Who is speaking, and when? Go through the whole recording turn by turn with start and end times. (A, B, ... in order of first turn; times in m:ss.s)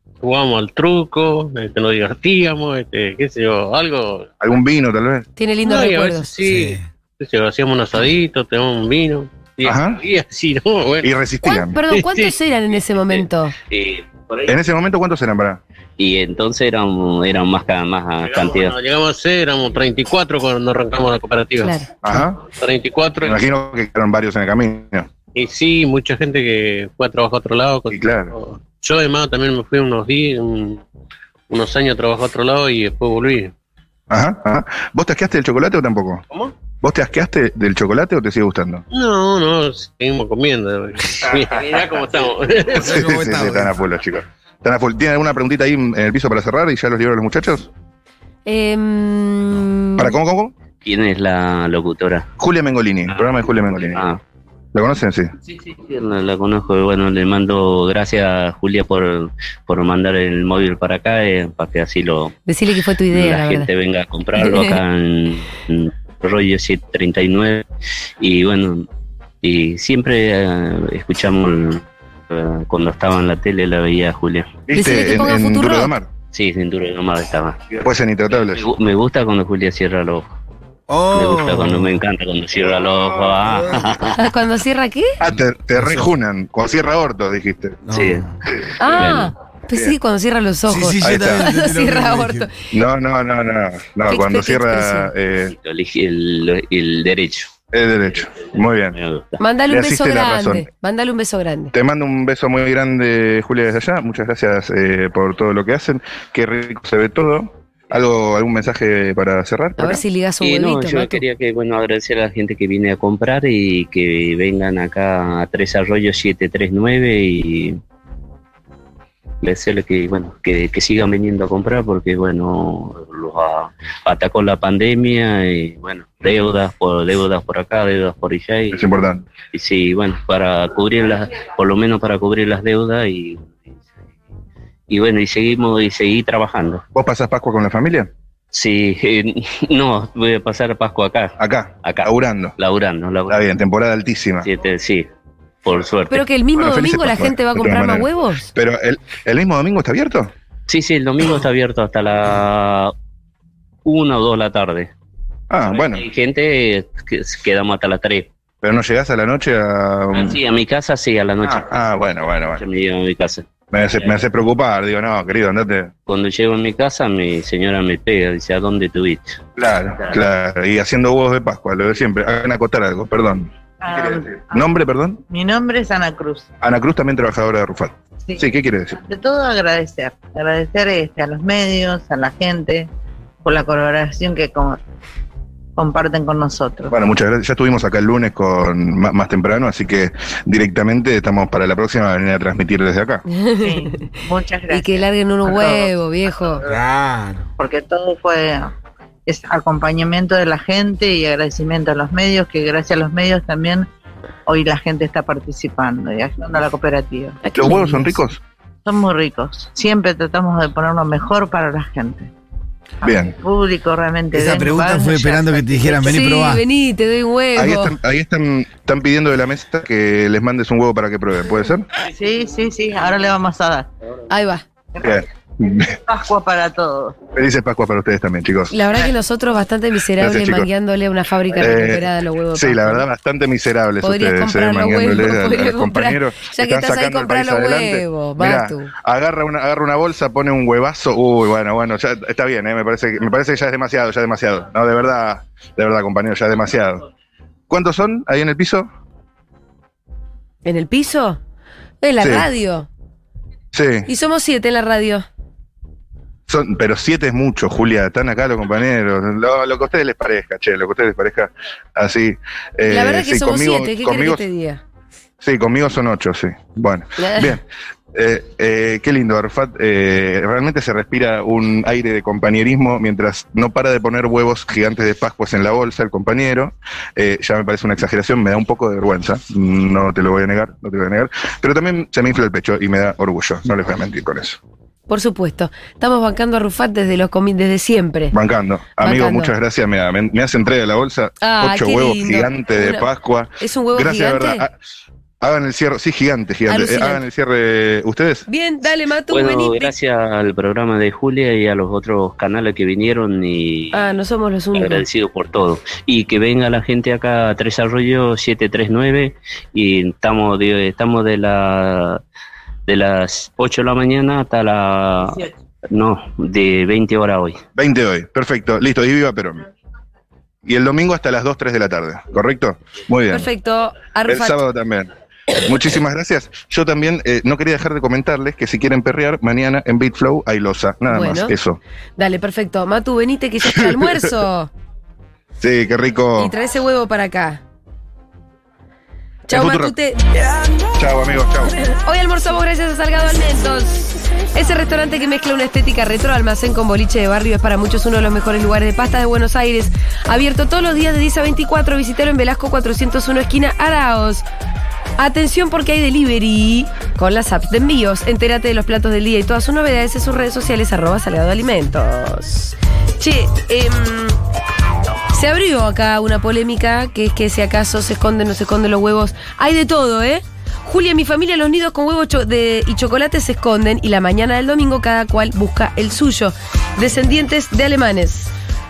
0:00.2-0:04.3 A
0:04.4-0:05.3 B
0:05.4-0:06.3 C
0:05.6-0:11.2 A
0:06.4-0:06.9 D
0:09.6-0:10.0 B
0:11.0-0:11.8 B
0:11.4-0:13.6 C
0:11.9-0:12.4 A
0:13.1-0:14.6 E
0:14.5-0:15.6 B
0:16.0-0:18.8 E
0:18.2-0:23.4 A
0:21.6-0:21.9 C
0:22.0-0:22.4 B
0:23.2-0:25.1 B
0:25.4-0:30.8 A
0:27.9-0:28.3 B
0:31.5-0:33.5 A
0:34.1-0:36.2 B
0:36.8-0:38.8 B
0:38.9-0:43.0 A
0:42.8-0:47.7 B
0:42.8-0:43.8 D
0:48.5-0:50.1 C
0:50.0-0:50.5 B
0:50.8-0:52.3 E
0:52.4-0:54.0 B
0:53.1-0:54.2 E
0:54.7-0:55.3 B
0:55.5-1:02.4 E
1:02.5-1:03.7 C
1:03.1-1:07.6 E
1:04.4-1:04.8 C
1:08.2-1:08.9 E
1:09.4-1:14.6 E
1:14.7-1:16.1 B
1:14.7-1:15.9 C
1:16.3-1:17.7 E
1:17.7-1:18.6 B
1:18.6-1:20.3 E
1:20.9-1:21.9 D
1:21.1-1:24.2 E
1:23.5-1:23.9 D
1:24.1-1:25.2 C
1:25.2-1:27.8 B
1:27.8-1:28.4 D
1:27.9-1:28.3 E
1:28.8-1:32.5 C
1:28.9-1:29.3 E
1:30.7-1:32.5 D
1:31.0-1:31.5 B
1:32.7-1:35.5 B
1:34.1-1:35.1 C
1:35.5-1:37.5 E
1:37.7-1:39.0 B
1:38.9-1:39.4 E
1:39.4-1:41.7 C
1:39.7-1:40.7 B
1:41.7-1:50.0 B
1:49.8-1:51.2 C
1:50.4-1:57.8 E
1:59.4-2:08.9 E
2:08.7-2:09.3 B
2:09.5-2:13.4 E
2:14.9-2:16.8 E
2:17.0-2:18.1 B
2:18.5-2:23.4 E
2:21.4-2:22.6 B
2:23.3-2:24.5 B
2:24.4-2:25.1 E
2:25.6-2:26.3 E
2:26.1-2:28.5 C
2:26.5-2:30.3 B
2:30.7-2:32.9 E
2:33.8-2:34.9 E
2:35.5-2:36.1 B
2:35.6-2:38.3 E
2:38.6-2:40.4 B
2:40.1-2:41.8 E
2:41.4-2:42.6 B
2:42.4-2:43.5 E
2:43.7-2:45.9 B
2:46.1-2:49.4 E
2:49.6-2:55.2 B
2:53.8-2:54.7 F
2:55.3-2:56.5 F
2:56.6-2:59.0 B
2:58.2-2:58.5 F
2:59.0-3:02.9 F
3:03.4-3:04.8 F
3:05.8-3:06.9 F
3:06.9-3:13.2 B
3:13.3-3:16.6 C
3:13.6-3:15.9 F
3:16.6-3:17.5 D
3:17.6-3:18.7 F
3:19.3-3:23.9 F
3:24.5-3:27.8 F
3:27.4-3:28.2 C
3:27.6-3:28.4 B
3:28.8-3:32.3 F
3:33.0-3:33.4 B
3:33.0-3:35.9 F
3:34.3-3:36.6 D
3:35.9-3:38.0 C
3:37.6-3:41.9 B
3:42.0-3:43.9 F
3:44.3-3:44.6 C
3:44.9-3:45.2 F
3:45.0-3:46.0 B
3:45.8-3:47.2 F
3:47.3-3:48.7 B
3:48.7-3:53.0 C
3:50.2-3:50.7 B
3:51.6-4:07.0 B
3:54.0-3:58.9 C
4:07.7-4:08.9 B
4:10.7-4:11.4 C
4:12.0-4:12.9 C
4:12.2-4:12.5 B
4:13.7-4:14.1 B
4:14.1-4:15.3 C
4:16.5-4:24.4 B
4:22.8-4:24.8 C
4:25.4-4:44.6 B
4:27.2-4:27.6 C
4:45.1-4:48.4 C
4:48.3-4:54.7 B
4:49.0-4:49.5 C
4:51.4-4:53.1 C
4:53.6-4:54.6 C
4:55.4-4:58.4 B
4:56.7-4:57.2 C
4:58.5-4:59.9 C
4:59.3-5:04.0 E
5:03.9-5:05.0 C
5:04.8-5:12.2 E
5:12.9-5:17.6 E
5:17.7-5:19.6 B
5:20.6-5:23.5 B
5:23.3-5:24.6 C
5:24.3-5:31.8 B
5:31.1-5:31.5 C
5:32.2-5:34.7 C
5:33.6-5:34.3 B
5:35.6-5:36.5 B
5:36.4-5:37.6 C
5:39.5-5:40.8 C
5:39.5-5:39.9 B
5:41.0-5:41.8 B
5:41.8-5:54.4 C
5:55.2-6:04.4 C
6:05.3-6:18.5 C